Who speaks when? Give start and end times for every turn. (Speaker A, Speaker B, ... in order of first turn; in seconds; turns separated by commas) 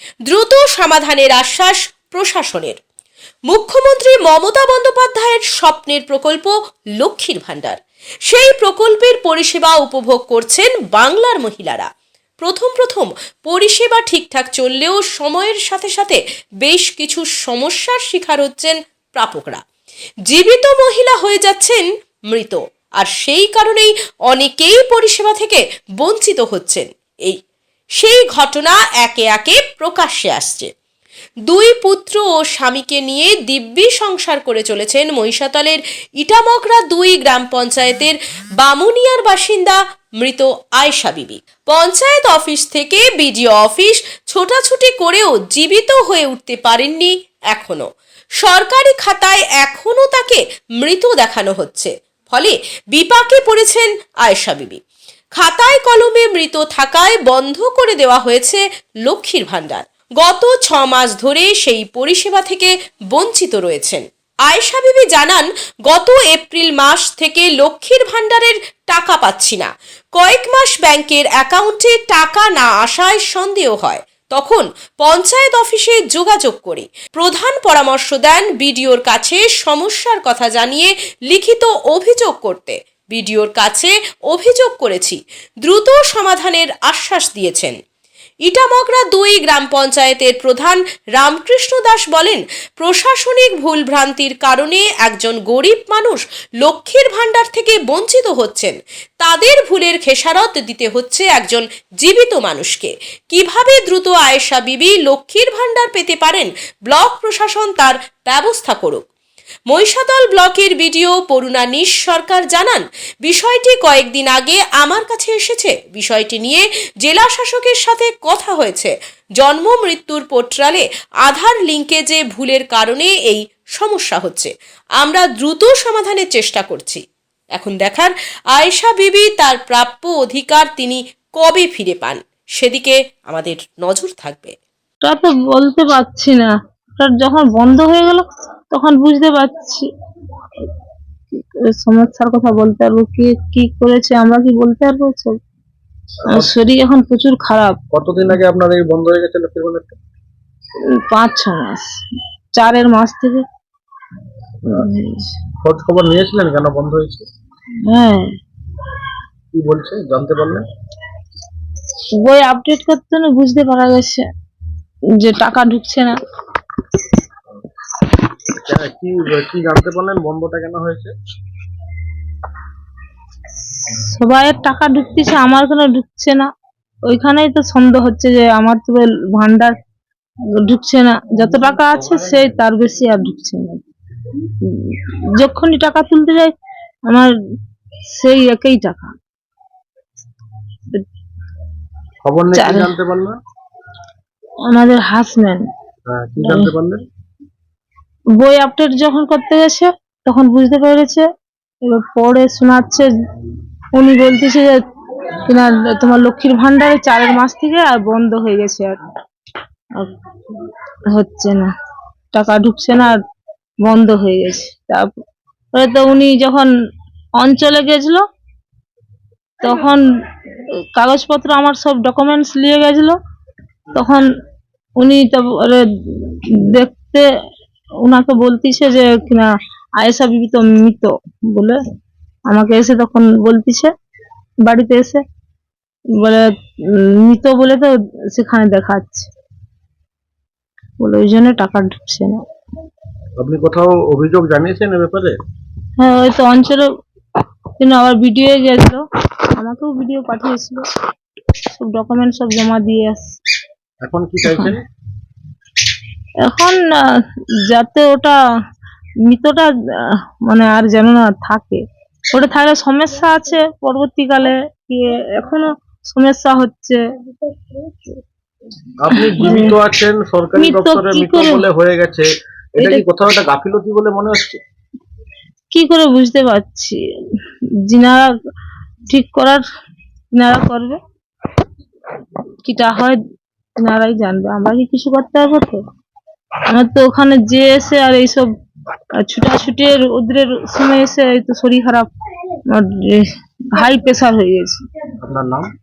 Speaker A: 0.3-2.8, Speaker A: 3.5-11.9, Speaker A: 12.4-19.6, Speaker A: 20.3-27.4, Speaker A: 28.0-30.7, Speaker A: 31.5-47.9, Speaker A: 48.4-54.8, Speaker A: 55.4-87.8, Speaker A: 88.5-109.0, Speaker A: 109.7-127.0, Speaker A: 127.5-134.5, Speaker B: 135.0-139.9, Speaker B: 141.3-145.4, Speaker B: 146.3-147.8, Speaker C: 147.9-150.0, Speaker B: 150.9-151.9, Speaker B: 152.5-153.4, Speaker B: 154.7-155.2, Speaker C: 155.6-157.2, Speaker B: 157.8-158.3, Speaker C: 159.5-160.6, Speaker B: 162.2-164.2, Speaker B: 165.2-166.2, Speaker C: 168.6-171.1, Speaker B: 173.8-176.5, Speaker B: 177.0-179.8, Speaker B: 180.6-183.8, Speaker B: 184.4-186.5, Speaker B: 188.0-189.1, Speaker C: 192.2-193.4, Speaker B: 192.5-192.9, Speaker B: 194.6-195.6, Speaker C: 196.1-197.0, Speaker B: 196.4-196.7, Speaker B: 198.3-201.3, Speaker B: 201.8-203.1, Speaker B: 203.9-204.8, Speaker B: 205.4-209.0, Speaker B: 209.9-211.7, Speaker B: 212.3-213.2, Speaker B: 213.8-215.2, Speaker B: 215.7-216.7, Speaker B: 217.3-218.2, Speaker B: 219.6-220.0, Speaker B: 220.9-223.1, Speaker B: 223.9-224.2, Speaker B: 225.0-227.2, Speaker B: 228.0-231.8, Speaker B: 232.5-233.9, Speaker B: 234.6-235.2, Speaker B: 236.1-239.3, Speaker B: 241.0-242.4, Speaker C: 243.4-245.4, Speaker B: 246.0-246.9, Speaker B: 247.8-250.8, Speaker B: 251.7-253.3, Speaker C: 254.0-254.8, Speaker B: 254.4-254.7, Speaker B: 256.4-257.0, Speaker B: 257.6-258.4, Speaker B: 259.2-261.8, Speaker B: 262.3-267.0, Speaker B: 267.7-268.1, Speaker C: 269.0-274.6, Speaker B: 269.1-269.8, Speaker B: 270.5-271.7, Speaker B: 272.8-273.1, Speaker B: 275.7-278.3, Speaker B: 279.1-279.6, Speaker B: 280.3-281.0, Speaker B: 282.6-283.2, Speaker B: 283.8-285.8, Speaker B: 286.7-288.5, Speaker B: 289.1-292.1, Speaker B: 292.7-294.8, Speaker C: 295.2-295.7